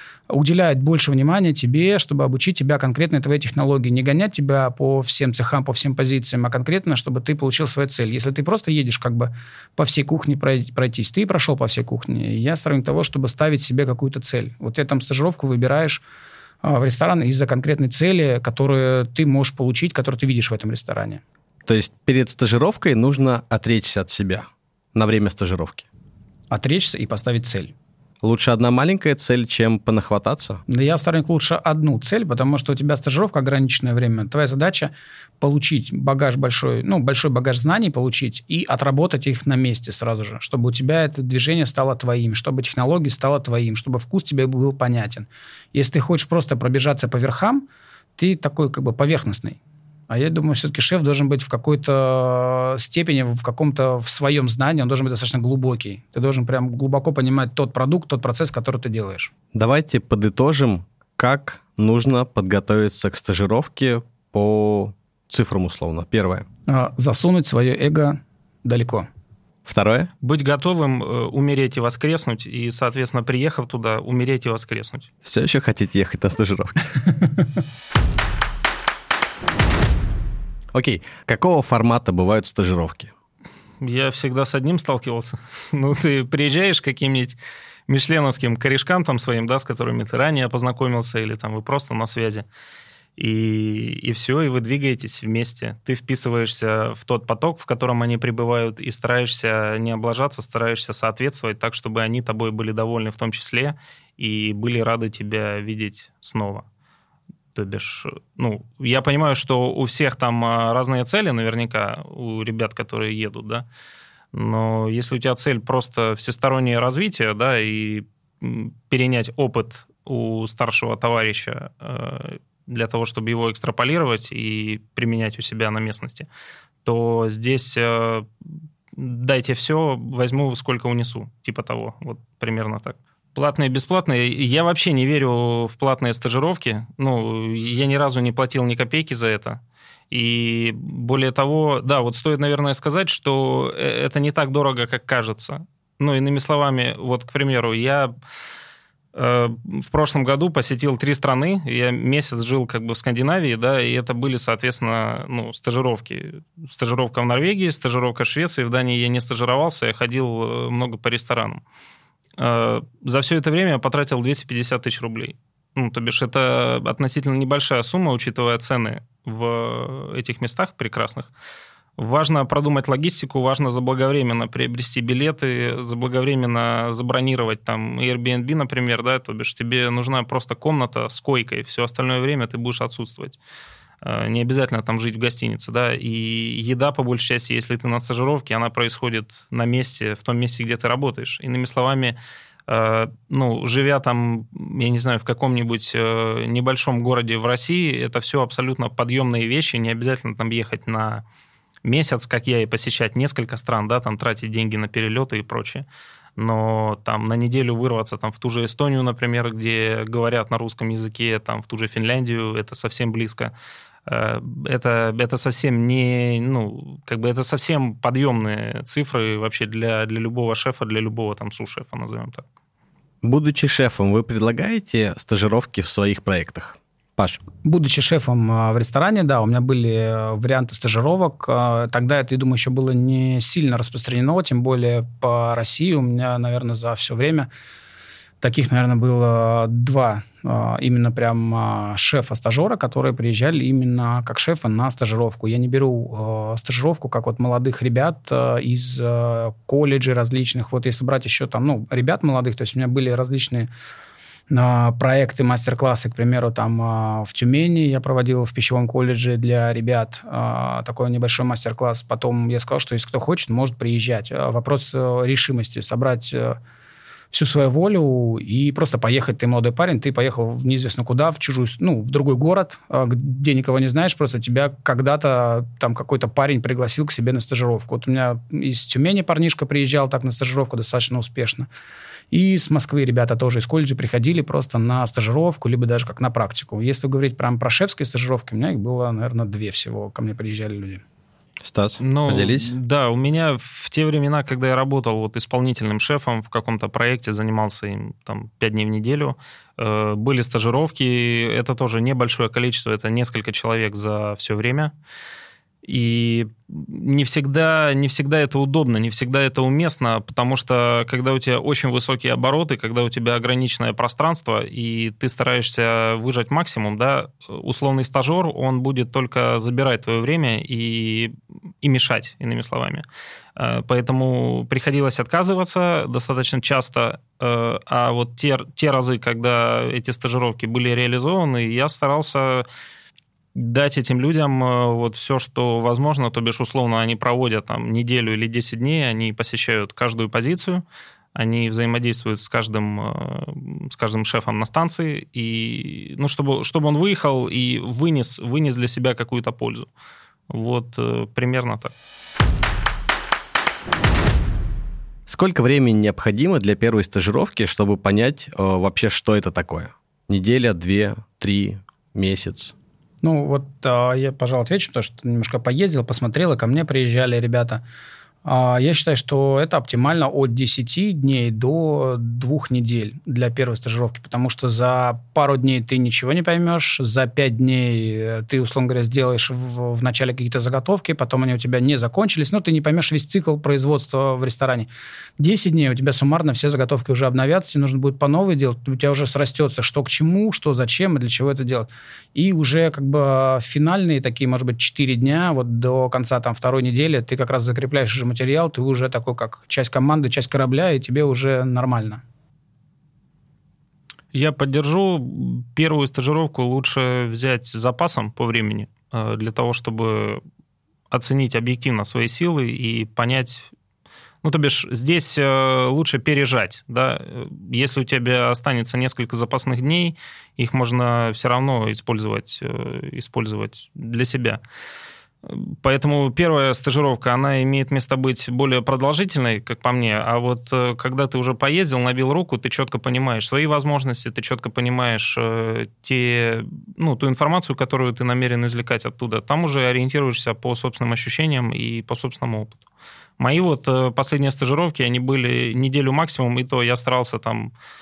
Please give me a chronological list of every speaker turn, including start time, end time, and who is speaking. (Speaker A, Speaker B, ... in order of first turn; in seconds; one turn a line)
Speaker A: 0.3-16.0
Speaker A: 16.6-21.2
Speaker B: 21.6-25.8
Speaker A: 26.5-27.7
Speaker B: 28.2-30.6
Speaker A: 30.7-47.6
Speaker A: 48.2-49.6
Speaker A: 50.1-59.3
Speaker B: 59.5-66.5
Speaker A: 66.7-69.1
Speaker B: 69.6-70.1
Speaker C: 70.2-75.1
Speaker B: 75.2-76.9
Speaker B: 80.7-83.1
Speaker C: 83.8-87.4
Speaker C: 87.9-92.4
Speaker C: 93.2-106.7
Speaker C: 107.5-113.7
Speaker C: 114.3-126.3
Speaker C: 126.8-128.3
Speaker C: 128.9-139.6
Speaker C: 140.1-148.1
Speaker C: 149.1-161.6
Speaker C: 162.4-171.3
Speaker C: 172.0-183.4
Speaker C: 184.0-201.2
Speaker C: 201.8-205.8
Speaker C: 206.4-213.5
Speaker C: 214.1-222.4
Speaker B: 223.2-227.4
Speaker A: 227.6-237.5
Speaker A: 238.4-253.7
Speaker A: 254.5-266.6
Speaker A: 267.3-281.7
Speaker A: 282.3-291.0
Speaker B: 291.6-292.7
Speaker C: 292.0-304.9
Speaker C: 305.8-323.0
Speaker C: 323.6-332.6
Speaker C: 333.5-340.8
Speaker C: 341.3-349.9
Speaker C: 350.5-351.9
Speaker B: 355.3-362.7
Speaker A: 363.2-367.8
Speaker A: 368.4-402.2
Speaker C: 404.3-410.4
Speaker C: 411.1-413.7
Speaker C: 414.4-424.6
Speaker C: 425.4-442.8
Speaker C: 443.4-447.7